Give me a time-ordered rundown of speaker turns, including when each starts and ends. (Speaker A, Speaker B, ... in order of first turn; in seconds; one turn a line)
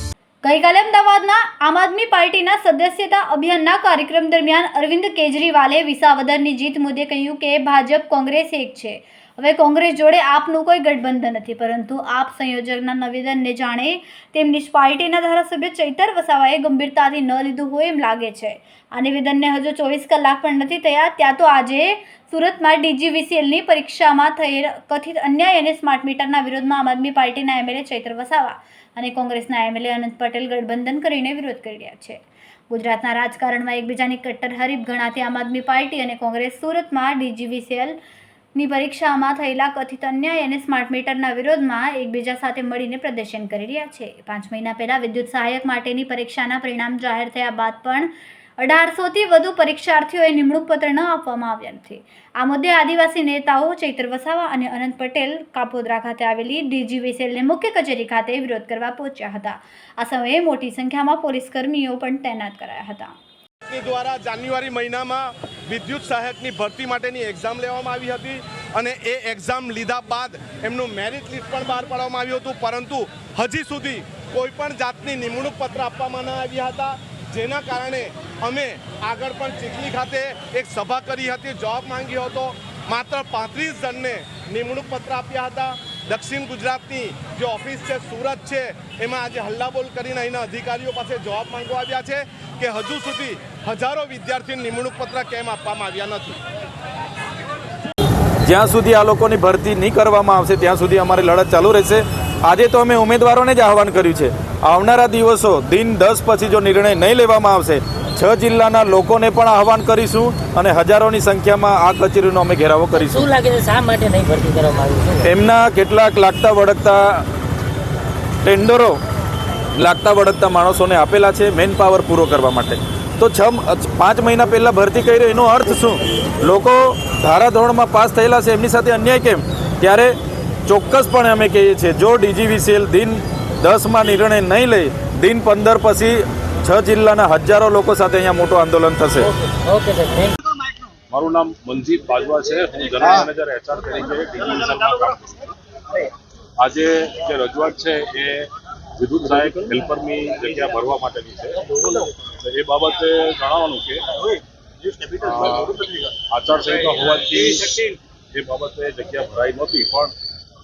Speaker A: 0.4-38.0
Speaker A: 38.5-63.2
Speaker B: 63.7-96.4
Speaker C: 98.5-113.3
Speaker D: 113.0-115.3
Speaker C: 115.2-117.2
Speaker C: 118.4-119.0
Speaker C: 119.8-130.1
Speaker C: 130.7-139.3
Speaker D: 139.2-140.4
Speaker E: 141.1-145.5
Speaker E: 146.6-151.7
Speaker E: 152.4-154.0
Speaker E: 155.2-160.1